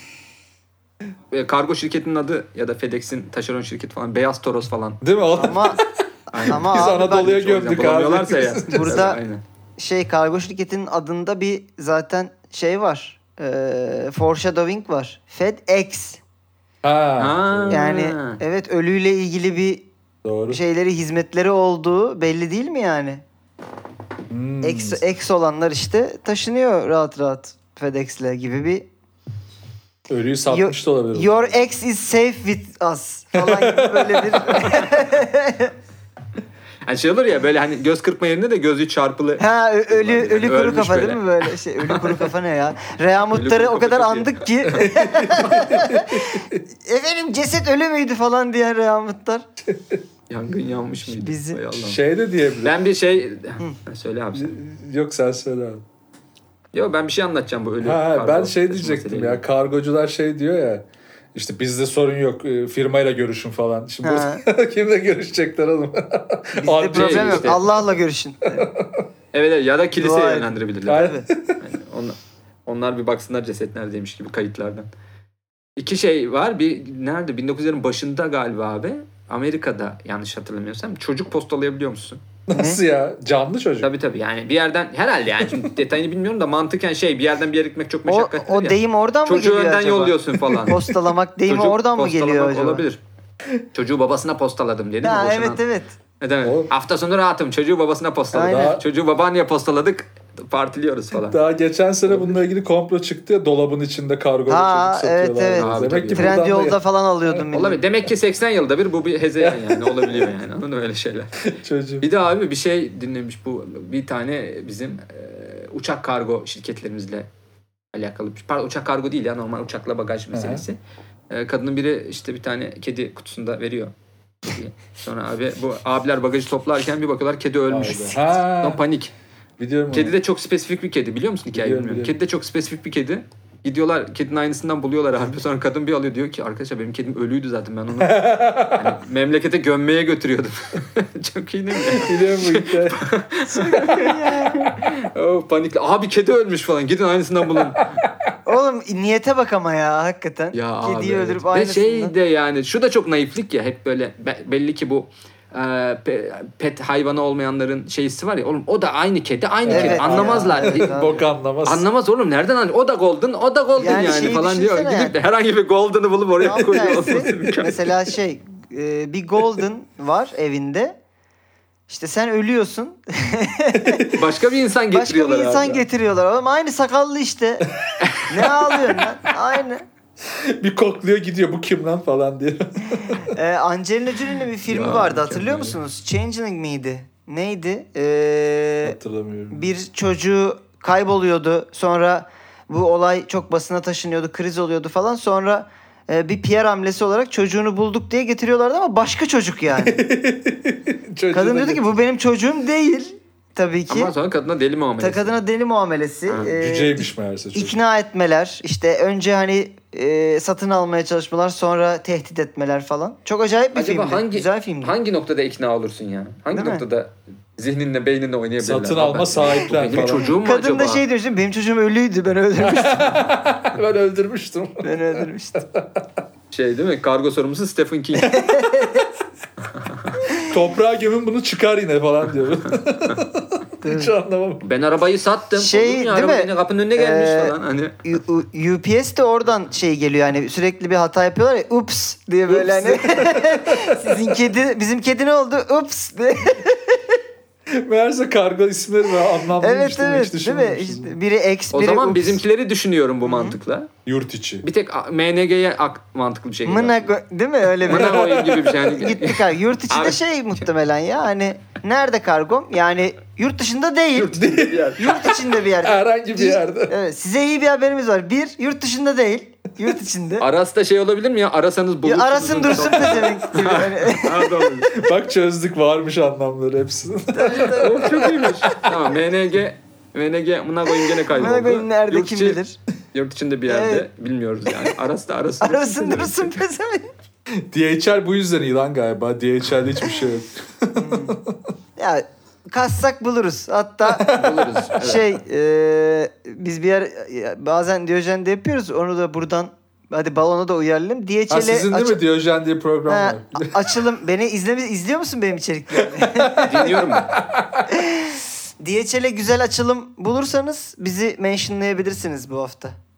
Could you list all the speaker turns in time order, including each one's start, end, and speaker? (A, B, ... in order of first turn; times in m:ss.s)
0:01.3-0:05.0 A
0:05.0-0:09.1 B
0:05.3-0:05.8 C
0:06.3-0:09.4 A
0:06.4-0:07.3 C
0:08.7-0:09.2 C
0:09.8-0:16.2 C
0:16.8-0:17.8 B
0:17.2-0:18.4 A
0:17.7-0:19.9 C
0:20.2-0:20.6 B
0:20.5-0:23.2 C
0:24.3-0:25.0 B
0:24.6-0:28.9 C
0:30.1-0:31.4 B
0:30.5-0:35.7 C
0:33.3-0:34.7 B
0:36.8-0:42.3 A
0:39.4-0:49.4 C
0:43.3-0:45.0 A
0:44.8-0:46.6 B
0:49.7-0:50.0 B
0:50.3-0:52.0 A
0:51.0-0:51.6 C
0:51.8-0:52.8 B
0:52.6-0:54.5 A
0:54.3-0:55.8 B
0:56.7-0:59.4 A
0:57.8-1:07.7 B
1:04.0-1:04.4 C
1:06.6-1:08.7 C
1:06.9-1:07.6 A
1:08.5-1:09.1 B
1:09.3-1:14.9 A
1:09.9-1:11.3 C
1:10.8-1:11.6 B
1:15.8-1:22.2 A
1:22.5-1:23.9 B
1:22.5-1:22.8 C
1:23.8-1:30.9 A
1:28.1-1:32.8 C
1:30.4-1:30.8 B
1:31.5-1:33.0 A
1:33.7-1:35.6 A
1:35.0-1:35.9 C
1:36.2-1:41.4 A
1:36.4-1:36.7 B
1:38.3-1:38.8 C
1:38.3-1:38.8 B
1:41.2-1:47.4 B
1:42.1-1:42.4 A
1:44.5-1:47.8 C
1:45.6-1:46.4 A
1:47.5-1:51.4 A
1:49.4-1:50.3 B
1:51.5-1:52.0 B
1:52.0-1:57.3 A
1:57.9-2:00.8 A
2:00.3-2:00.6 B
2:01.3-2:03.9 A
2:04.4-2:09.1 A
2:07.7-2:08.8 B
2:09.6-2:10.2 B
2:09.9-2:28.0 A
2:11.5-2:12.1 B
2:18.0-2:19.0 B
2:21.8-2:23.0 B
2:23.5-2:24.7 C
2:28.4-2:32.1 C
2:30.5-2:40.9 A
2:39.6-2:41.8 B
2:39.7-2:41.2 C
2:41.6-2:48.0 A
2:43.8-2:45.1 C
2:46.4-2:51.0 C
2:51.9-2:54.2 C
2:53.8-2:54.2 B
2:54.1-2:55.8 A
2:54.9-2:57.7 C
2:57.8-2:59.1 B
2:58.2-2:59.8 C
3:00.2-3:03.4 B
3:03.2-3:09.0 C
3:04.7-3:05.8 A
3:08.8-3:09.7 B
3:09.5-3:20.0 C
3:19.7-3:21.9 B
3:21.3-3:24.1 C
3:23.9-3:25.4 A
3:25.0-3:34.9 C
3:26.5-3:27.8 B
3:33.7-3:41.0 A
3:36.5-3:36.8 C
3:38.6-3:40.3 B
3:40.3-3:43.3 C
3:42.6-3:46.2 B
3:44.8-3:45.6 C
3:46.5-3:48.4 A
3:48.3-3:49.1 C
3:48.4-3:49.0 B
3:50.4-3:54.6 B
3:53.8-3:54.1 C
3:54.6-3:58.0 A
3:55.6-4:07.0 C
4:02.5-4:04.4 B
4:07.7-4:11.2 B
4:09.6-4:12.4 C
4:11.7-4:13.9 A
4:13.2-4:13.6 C
4:14.0-4:14.6 B
4:14.6-4:17.1 A
4:16.6-4:24.4 C
4:17.8-4:18.9 B
4:17.9-4:20.6 A
4:24.1-4:25.2 A
4:24.3-4:26.9 B
4:25.0-4:30.4 C
4:30.4-4:35.0 A
4:32.0-4:34.7 C
4:34.9-4:39.1 B
4:37.3-4:38.2 C
4:37.5-4:42.6 A
4:41.3-4:42.8 C
4:43.1-4:46.6 A
4:43.7-4:44.0 C
4:45.6-4:47.1 C
4:47.6-4:51.6 B
4:51.0-4:51.4 C
4:52.0-4:54.3 C
4:54.0-4:54.9 B
4:54.3-4:55.3 A
4:55.0-5:02.2 C
5:01.5-5:04.0 B
5:03.1-5:06.9 C
5:06.0-5:07.9 B
5:06.6-5:07.3 A
5:07.9-5:13.0 C